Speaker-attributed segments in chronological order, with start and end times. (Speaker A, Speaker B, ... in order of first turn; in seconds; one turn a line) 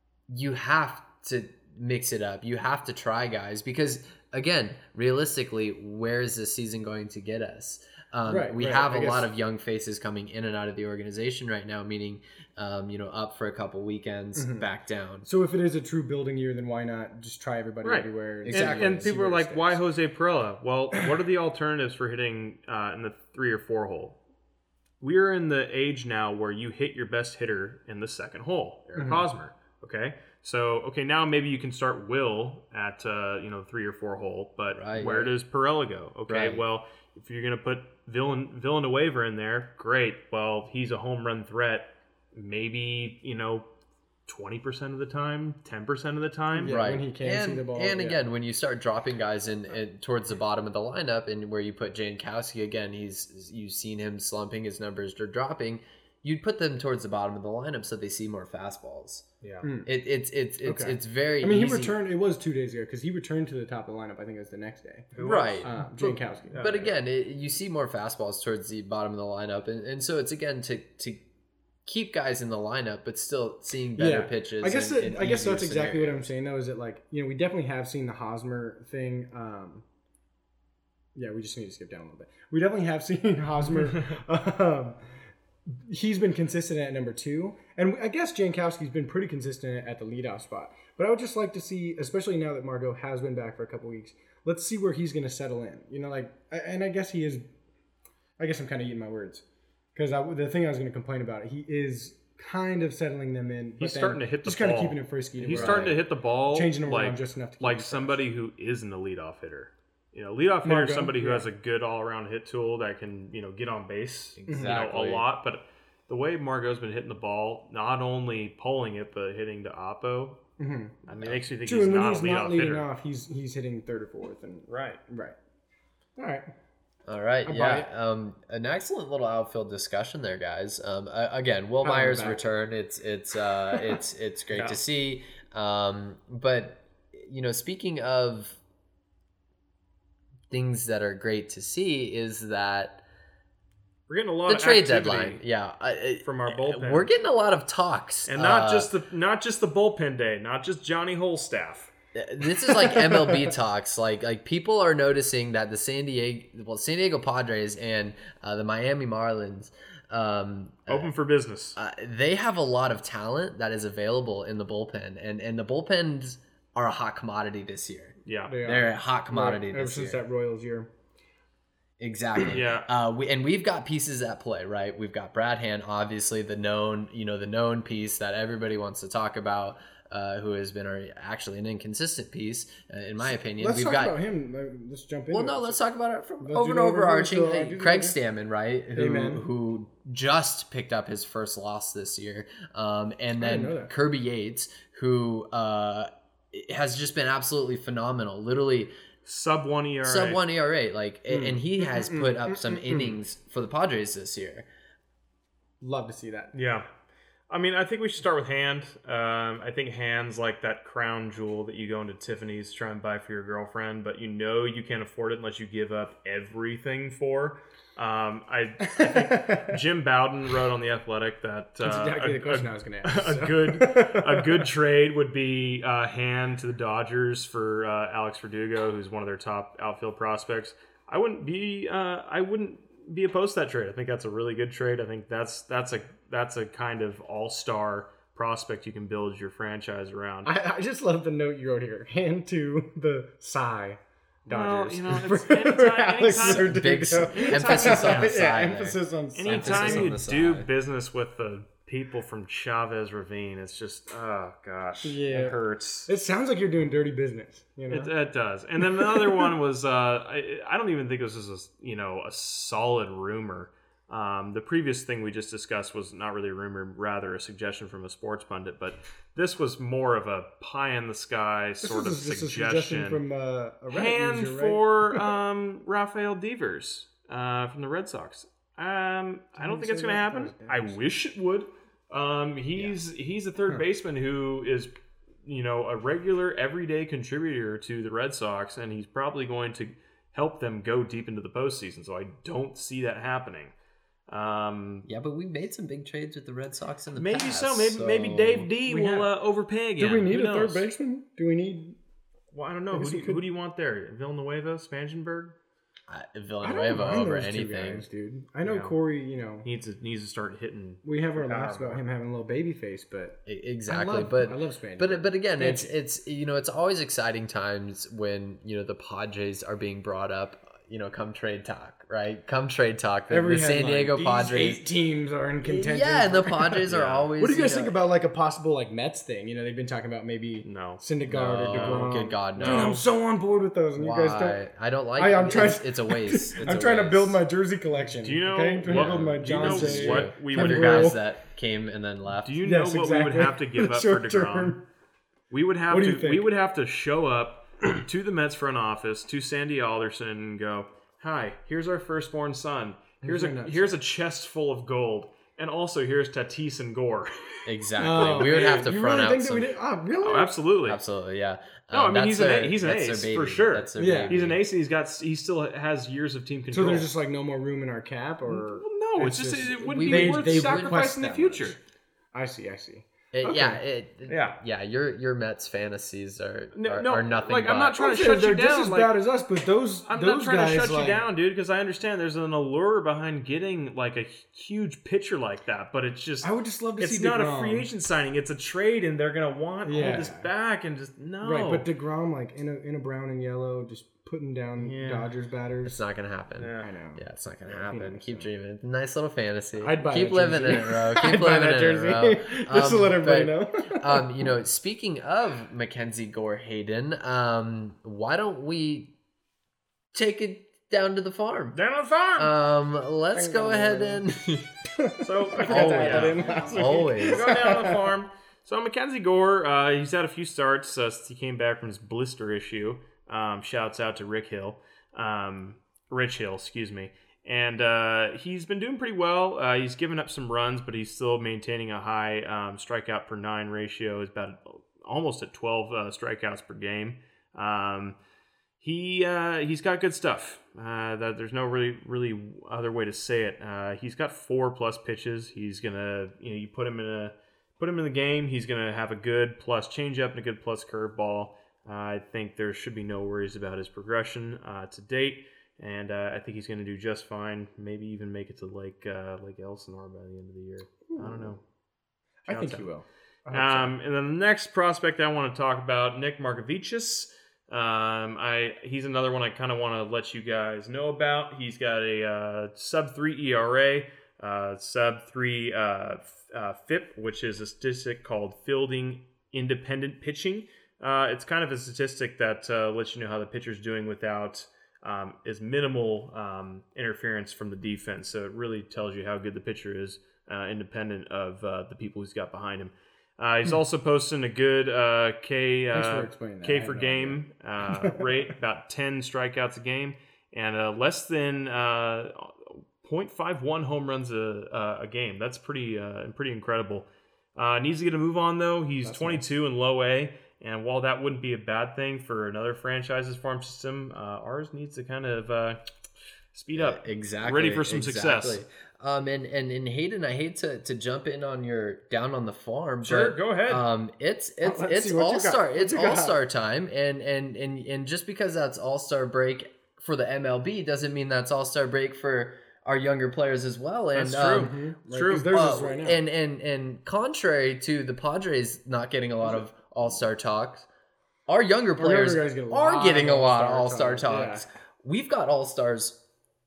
Speaker A: 0.3-15.3
Speaker B: 8.3-9.3
Speaker B: 14.3-14.7
Speaker B: 15.2-19.8
Speaker C: 17.8-24.2
Speaker A: 18.4-19.1
Speaker C: 25.0-43.7
Speaker B: 29.0-29.2
Speaker A: 34.7-35.3
Speaker A: 36.3-36.6
Speaker C: 44.3-46.8
Speaker B: 46.5-48.2
Speaker A: 46.7-59.2
Speaker B: 59.6-59.9
Speaker A: 59.9-62.0
Speaker B: 60.6-66.5
Speaker C: 65.2-65.7
Speaker A: 65.2-71.2
Speaker C: 66.5-66.9
Speaker A: 71.9-76.3
Speaker B: 74.0-79.8
Speaker B: 81.2-85.0
Speaker C: 83.8-84.2
Speaker B: 85.7-97.5
Speaker B: 98.4-99.4
Speaker B: 100.0-106.0
Speaker C: 103.8-120.4
Speaker A: 105.5-105.9
Speaker B: 106.5-108.2
Speaker B: 110.6-111.5
Speaker A: 114.4-115.3
Speaker B: 114.5-114.7
Speaker B: 120.6-121.0
Speaker C: 121.1-122.9
Speaker A: 121.1-121.4
Speaker B: 121.7-125.3
Speaker C: 124.7-125.0
Speaker B: 126.2-126.5
Speaker A: 127.1-138.6
Speaker B: 127.4-127.9
Speaker B: 131.8-132.4
Speaker C: 134.5-134.8
Speaker A: 140.5-143.0
Speaker C: 144.1-145.4
Speaker A: 144.5-148.9
Speaker C: 146.2-147.1
Speaker C: 148.3-151.9
Speaker A: 152.2-161.1
Speaker B: 152.9-153.5
Speaker C: 160.9-161.8
Speaker A: 161.8-170.2
Speaker C: 168.3-168.6
Speaker B: 168.5-170.9
Speaker A: 172.0-184.2
Speaker C: 172.5-172.9
Speaker B: 183.2-185.8
Speaker A: 185.3-198.9
Speaker B: 186.4-188.2
Speaker B: 188.9-189.4
Speaker B: 193.4-193.9
Speaker C: 199.3-200.4
Speaker A: 200.0-204.7
Speaker B: 201.3-203.2
Speaker B: 205.8-206.5
Speaker C: 206.5-206.9
Speaker C: 207.5-240.5
Speaker B: 218.8-219.8
Speaker B: 221.8-224.7
Speaker B: 240.4-250.1
Speaker C: 244.5-248.4
Speaker A: 246.4-250.7
Speaker C: 249.4-256.1
Speaker B: 255.0-258.1
Speaker C: 257.9-273.2
Speaker B: 258.8-259.5
Speaker B: 271.8-275.2
Speaker C: 273.9-284.9
Speaker B: 279.6-281.0
Speaker C: 285.4-293.7
Speaker C: 294.3-295.1
Speaker A: 295.1-298.7
Speaker C: 297.2-300.9
Speaker B: 298.9-299.3
Speaker B: 300.0-302.0
Speaker C: 302.5-305.6
Speaker B: 302.9-303.4
Speaker A: 306.1-308.1
Speaker B: 306.6-309.7
Speaker C: 308.6-308.9
Speaker C: 309.6-312.0
Speaker B: 311.0-315.9
Speaker A: 313.5-324.9
Speaker B: 323.3-326.8
Speaker A: 325.6-327.9
Speaker C: 326.9-327.3
Speaker B: 327.4-334.6
Speaker C: 330.6-331.0
Speaker A: 331.3-333.0
Speaker C: 331.7-333.0
Speaker A: 334.0-337.4
Speaker B: 335.2-341.2
Speaker C: 338.2-341.2
Speaker A: 338.9-342.5
Speaker C: 342.4-344.8
Speaker B: 342.6-344.8
Speaker C: 345.5-357.7
Speaker B: 345.9-346.4
Speaker B: 353.2-354.0
Speaker A: 357.7-359.8
Speaker B: 358.0-360.5
Speaker C: 358.4-358.8
Speaker C: 360.2-361.0
Speaker A: 360.9-364.6
Speaker C: 361.9-367.1
Speaker B: 364.0-364.3
Speaker B: 366.7-371.8
Speaker C: 368.5-371.8
Speaker A: 369.8-371.0
Speaker B: 372.3-373.8
Speaker A: 373.3-378.0
Speaker C: 374.3-374.6
Speaker C: 376.8-379.2
Speaker B: 378.0-381.2
Speaker C: 380.1-391.9
Speaker B: 386.4-387.9
Speaker B: 389.9-390.5
Speaker B: 391.4-396.0
Speaker C: 394.8-395.3
Speaker A: 395.9-409.1
Speaker C: 396.6-396.9
Speaker B: 396.8-398.5
Speaker B: 399.8-404.3
Speaker A: 410.1-411.8
Speaker C: 411.7-412.5
Speaker A: 412.4-414.7
Speaker B: 413.3-414.2
Speaker B: 415.0-417.9
Speaker C: 415.2-438.2
Speaker A: 415.6-417.5
Speaker C: 438.8-461.6
Speaker B: 461.1-461.5
Speaker B: 462.5-463.9
Speaker C: 462.5-462.9
Speaker C: 463.5-515.8
Speaker B: 495.9-498.4
Speaker B: 509.0-509.4
Speaker C: 516.5-518.6
Speaker A: 516.7-534.7
Speaker C: 523.0-523.9
Speaker B: 524.6-526.4
Speaker C: 534.1-535.5
Speaker B: 534.5-536.2
Speaker A: 535.5-540.9
Speaker A: 541.5-546.2
Speaker B: 542.0-544.6